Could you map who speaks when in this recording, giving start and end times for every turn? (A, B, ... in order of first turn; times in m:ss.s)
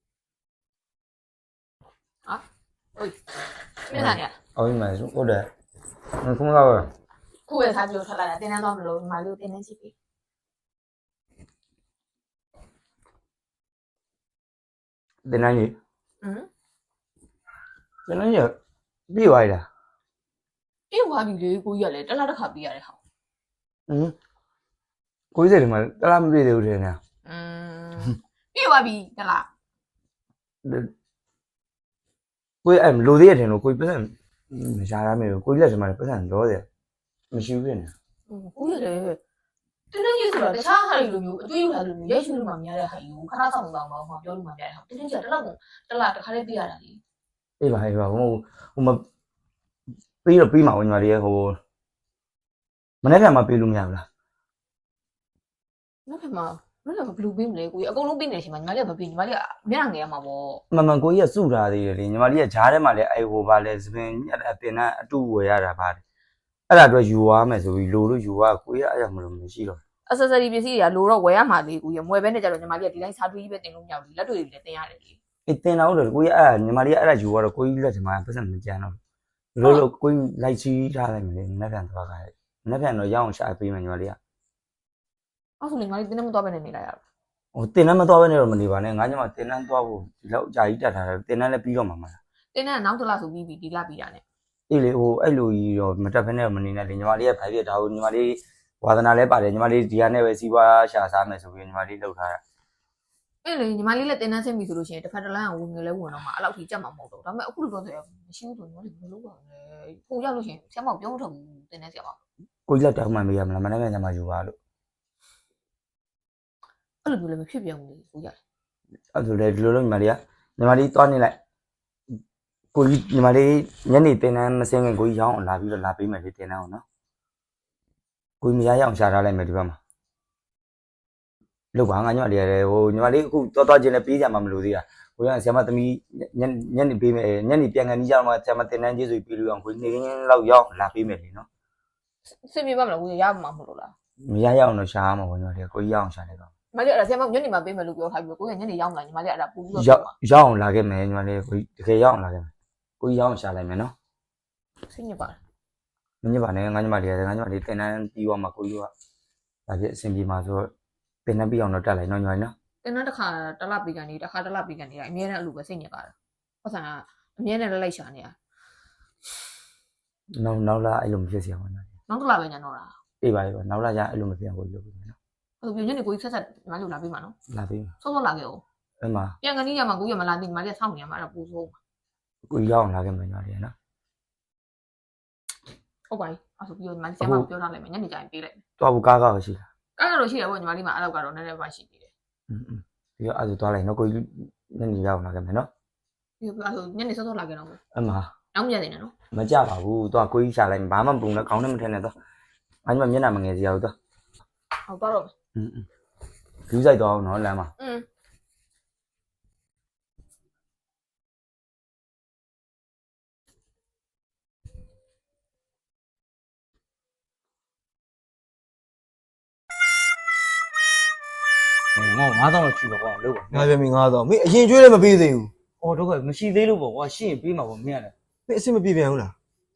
0:03.9-0:04.3 A
0:03.9-0:05.5 B
0:06.2-0:06.9 B
0:07.5-0:09.9 A
0:15.2-0:15.7 B
0:16.2-0:16.5 A
0:18.1-0:18.5 B
0:19.1-0:19.6 B
0:20.9-0:23.0 A
0:23.9-0:24.1 B
0:25.3-0:27.0 B
0:27.2-0:29.5 A
0:30.6-0:30.9 B
0:32.6-0:36.6 B
0:37.3-0:37.9 B
0:38.3-0:39.2 A
0:39.9-0:47.0 A
0:47.6-0:49.0 B
0:50.2-0:51.6 B
0:53.0-0:54.0 B
0:56.1-1:00.6 A
1:00.7-1:06.0 B
1:06.7-1:09.8 B
1:10.1-1:15.2 A
1:15.5-1:19.0 B
1:19.6-1:24.2 B
1:25.6-1:27.0 A
1:27.5-1:32.2 B
1:32.5-1:34.2 A
1:34.7-1:42.4 B
1:43.4-1:52.2 A
1:52.7-1:54.5 B
1:57.0-1:58.3 A
1:59.1-2:01.4 B
2:02.7-2:06.8 B
2:08.4-2:09.8 B
2:11.7-2:21.4 B
2:22.4-2:23.9 A
2:24.2-2:26.5 B
2:26.7-2:30.1 A
2:29.7-2:32.5 B
2:33.0-2:33.9 B
2:34.9-2:35.4 A
2:36.2-2:38.9 B
2:39.7-2:40.7 B
2:41.2-2:42.5 B
2:42.8-2:48.3 A
2:50.4-2:51.8 B
2:52.1-2:52.9 A
2:53.2-2:55.1 B
2:55.6-2:57.3 A
2:57.5-2:57.9 B
2:58.0-2:58.6 A
2:59.0-2:59.3 B
2:59.4-3:01.8 A
3:02.5-3:03.7 B
3:06.1-3:08.6 A
3:07.2-3:07.5 B
3:08.8-3:09.6 B
3:10.0-3:12.1 A
3:12.5-3:15.7 B
3:16.4-3:17.8 A
3:17.9-3:18.3 B
3:18.5-3:19.1 A
3:19.3-3:22.1 B
3:22.8-3:23.9 B
3:24.9-3:25.3 A
3:25.6-3:25.8 B
3:26.7-3:27.7 B
3:27.8-3:28.0 A
3:42.0-3:43.7 B
3:43.5-3:45.5 C
3:45.8-3:48.1 B
3:48.5-3:49.3 C